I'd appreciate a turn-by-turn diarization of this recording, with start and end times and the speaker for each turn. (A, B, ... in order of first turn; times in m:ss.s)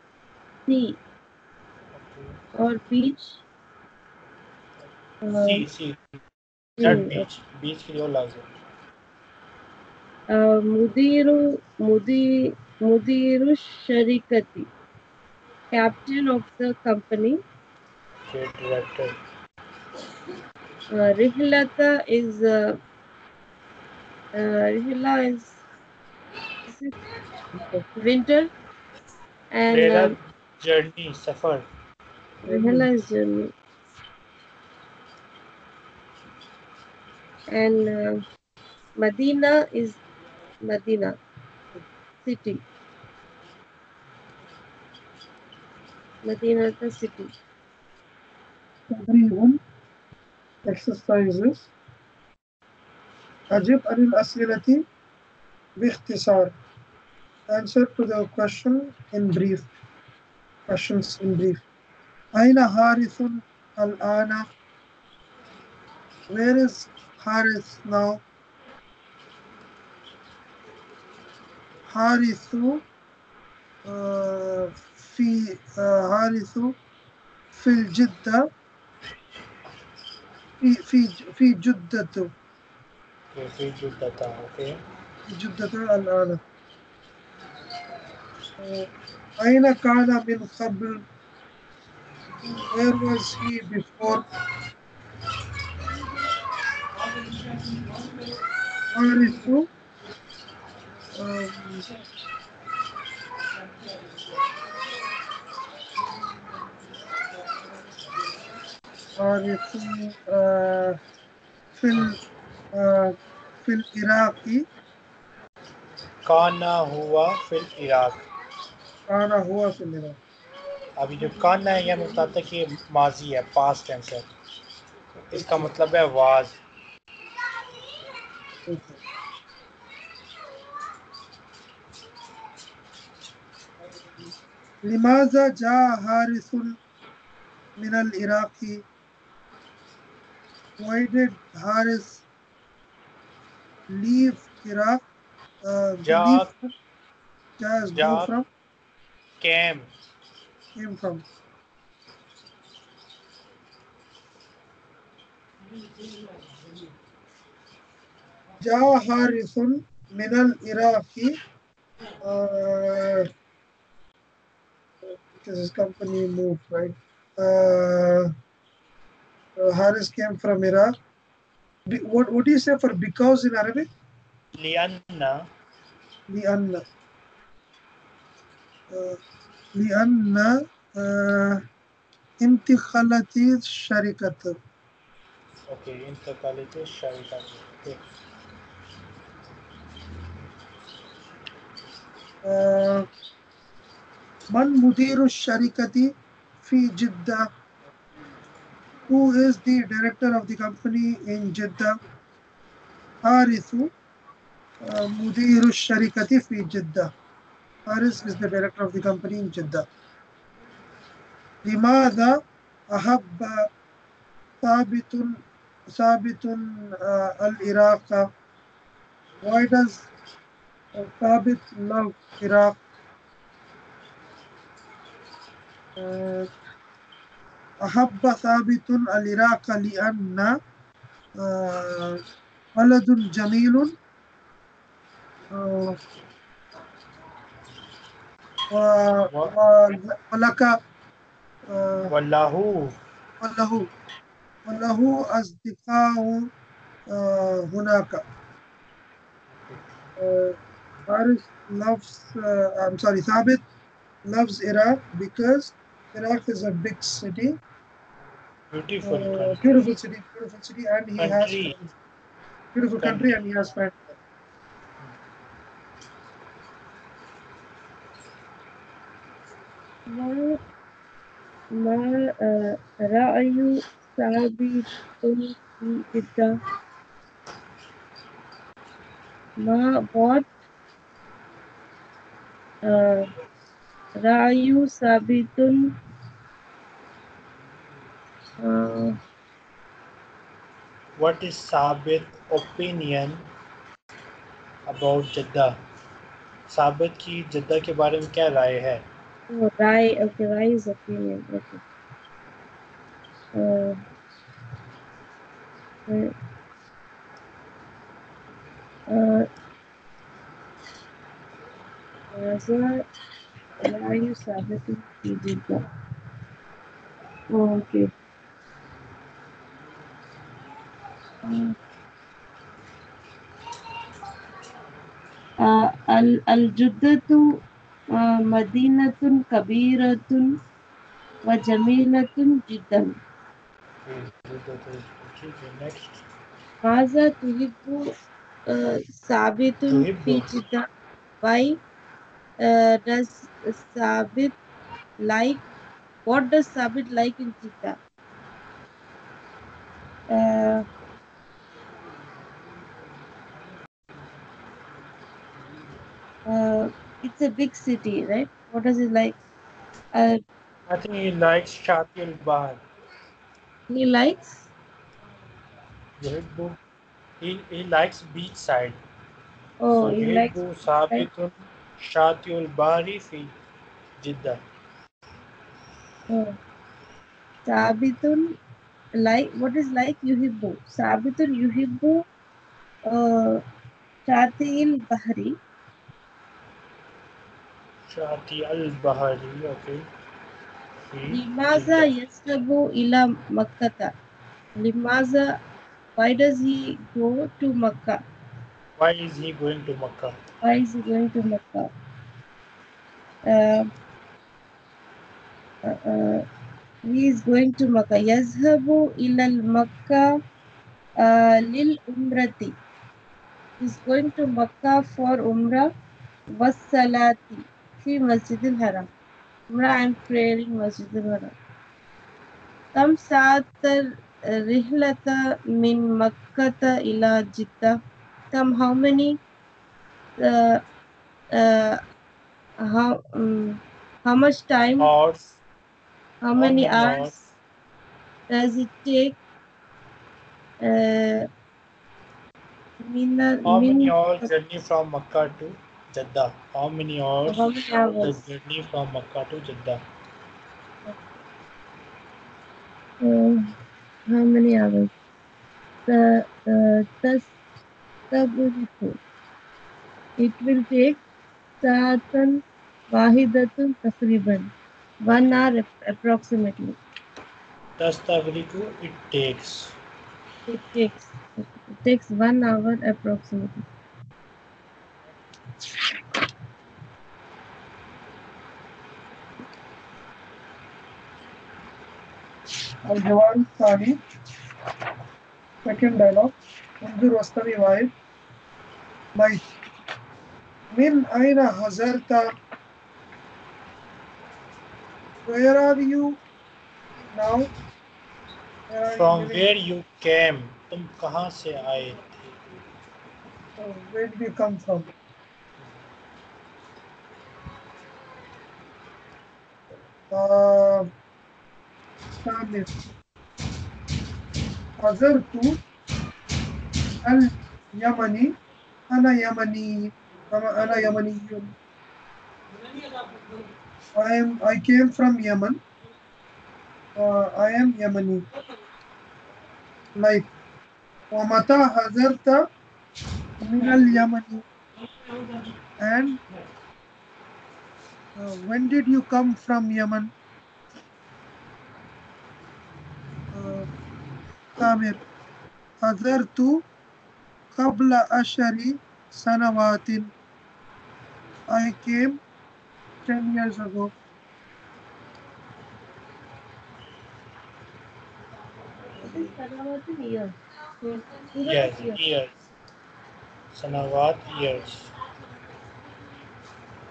0:00.7-0:01.0 A
0:01.9-0:02.4 B
0:02.6-0:03.4 A
0:05.2-0:05.6 A
0:05.3-0:06.2 B
0:06.8-0:07.2 A
0:06.8-0:08.4 B
0:10.3-0:14.7 A
0:15.7-0:17.4 A
0:18.3-0:19.1 B
0:20.9-0:22.8 A
0:24.3-0:25.6 A
0:26.7-0:27.0 A
0:28.0-0:28.5 A
0:29.5-0:30.2 A
0:29.7-0:31.6 B
0:32.4-0:33.5 A
0:32.4-0:32.9 C
0:37.5-0:38.2 A
0:39.0-0:40.0 A
0:40.6-0:41.1 A
0:42.2-0:42.6 A
0:46.2-0:47.3 A
0:48.9-0:49.6 C
0:50.6-0:51.7 C
0:53.5-0:54.8 C
0:55.8-0:56.5 C
0:57.5-0:59.7 C
1:00.7-1:01.6 C
1:02.3-1:04.5 C
1:06.3-1:08.2 C
1:11.9-1:12.8 C
1:13.8-1:16.8 C
1:17.5-1:18.5 C
1:20.6-1:22.3 C
1:23.3-1:24.8 B
1:25.3-1:26.4 C
1:28.6-1:28.9 C
1:29.4-1:31.0 C
1:32.6-1:34.2 C
1:38.9-1:39.7 C
1:41.1-1:41.8 C
1:49.2-1:51.0 C
1:51.8-1:52.2 C
1:52.7-1:54.6 C
1:56.2-1:58.2 B
1:59.1-2:00.2 C
2:01.0-2:04.3 B
2:05.3-2:06.6 B
2:05.3-2:05.7 C
2:08.7-2:09.0 C
2:14.8-2:16.8 C
2:17.8-2:18.8 C
2:20.8-2:22.2 C
2:23.9-2:25.0 C
2:25.6-2:26.5 C
2:26.0-2:26.5 B
2:27.6-2:28.4 C
2:27.9-2:28.3 B
2:29.4-2:29.9 B
2:30.8-2:31.2 C
2:38.6-2:41.3 C
2:42.2-2:43.3 C
2:45.0-2:48.3 C
2:49.6-2:50.9 C
2:51.9-2:53.9 C
2:54.6-2:55.5 B
2:56.3-2:56.8 C
2:58.9-2:59.2 C
2:59.7-3:01.6 C
3:02.4-3:04.6 C
3:05.7-3:08.1 B
3:12.4-3:13.0 C
3:14.5-3:17.5 C
3:19.1-3:22.0 C
3:23.2-3:23.9 C
3:24.8-3:27.1 C
3:27.9-3:29.8 C
3:31.6-3:32.4 C
3:32.9-3:33.7 C
3:34.6-3:35.3 C
3:35.9-3:38.3 C
3:39.4-3:40.1 C
3:41.0-3:42.8 C
3:46.0-3:46.5 C
3:47.8-3:50.5 C
3:51.4-3:52.2 C
3:52.7-3:53.9 C
3:55.5-3:56.0 C
3:58.7-4:00.7 C
4:01.7-4:02.1 C
4:02.1-4:03.0 B
4:03.4-4:03.9 C
4:04.6-4:06.5 C
4:07.1-4:08.2 C
4:10.2-4:13.6 C
4:14.2-4:17.5 C
4:18.7-4:19.9 B
4:19.0-4:21.9 C
4:21.2-4:21.8 B
4:22.7-4:24.2 C
4:23.0-4:23.3 B
4:30.1-4:30.6 A
4:31.7-4:36.6 A
4:39.6-4:40.4 A
4:42.8-4:43.2 A
4:44.2-4:45.9 A
4:48.6-4:49.1 A
4:51.2-4:53.4 B
4:54.9-4:55.8 B
4:56.7-4:59.0 B
4:59.5-5:01.8 A
5:03.5-5:04.0 A
5:06.1-5:06.3 A
5:09.1-5:09.5 A
5:12.3-5:13.0 A
5:13.8-5:15.8 A
5:17.5-5:18.1 A
5:21.4-5:21.7 A
5:25.6-5:27.5 A
5:28.1-5:30.6 A
5:31.4-5:33.1 A
5:34.0-5:36.2 B
5:36.8-5:38.1 A
5:38.6-5:40.8 A
5:39.9-5:40.5 B
5:41.4-5:41.8 A
5:42.6-5:44.5 A
5:45.2-5:45.6 A
5:46.2-5:48.0 A
5:50.3-5:50.8 A
5:56.5-5:59.4 A
6:00.1-6:00.4 A
6:00.9-6:02.8 B
6:03.9-6:04.7 A
6:06.2-6:06.8 B
6:07.4-6:09.0 B
6:09.8-6:10.6 A
6:09.9-6:13.5 B
6:14.2-6:14.6 B
6:16.3-6:16.6 A
6:17.6-6:18.5 A
6:19.2-6:22.3 A
6:23.0-6:23.6 A
6:24.3-6:25.6 A
6:28.1-6:30.0 B
6:31.1-6:32.1 B
6:31.3-6:34.1 A
6:34.8-6:35.5 A
6:36.2-6:38.2 A
6:39.0-6:40.4 B
6:40.6-6:41.9 A
6:43.5-6:43.9 A
6:45.8-6:46.4 A
6:47.0-6:50.3 A
6:51.2-6:52.7 A
6:53.8-6:55.9 A
6:56.6-6:59.1 A
6:59.7-7:01.5 A
7:02.9-7:08.0 A
7:08.5-7:09.4 A
7:10.4-7:10.8 A
7:11.5-7:12.0 A
7:12.8-7:15.1 A
7:15.0-7:15.6 B
7:16.4-7:17.4 A
7:16.5-7:17.3 B
7:18.5-7:19.4 A
7:20.8-7:21.5 A
7:23.0-7:24.5 A
7:23.6-7:27.6 B
7:27.5-7:28.4 A
7:28.2-7:30.0 B
7:33.2-7:33.6 A
7:34.3-7:35.1 A
7:36.1-7:37.5 A
7:38.3-7:39.2 A
7:40.4-7:41.2 A
7:41.8-7:44.7 A
7:45.2-7:47.0 A
7:48.0-7:49.9 B
7:50.7-7:53.8 A
8:03.0-8:04.2 C
8:05.8-8:08.1 C
8:09.3-8:09.6 C
8:10.9-8:12.5 C
8:15.4-8:16.4 C
8:17.3-8:17.7 C
8:18.9-8:19.6 C
8:19.1-8:22.5 B
8:23.8-8:25.1 C
8:30.3-8:31.1 C
8:32.4-8:32.9 C
8:35.0-8:35.8 C
8:37.2-8:38.5 C
8:39.1-8:41.7 C
8:44.1-8:45.8 C
8:47.2-8:48.4 C
8:50.2-8:50.5 C
8:51.3-8:52.6 C
8:53.6-8:54.6 C
8:56.0-8:56.4 C
8:58.4-9:00.3 C
9:03.5-9:03.9 C
9:04.8-9:05.2 C
9:06.0-9:06.8 C
9:07.7-9:10.3 C
9:11.7-9:12.4 C
9:13.3-9:14.1 C
9:19.2-9:22.2 A
9:21.6-9:22.6 B
9:23.7-9:25.1 B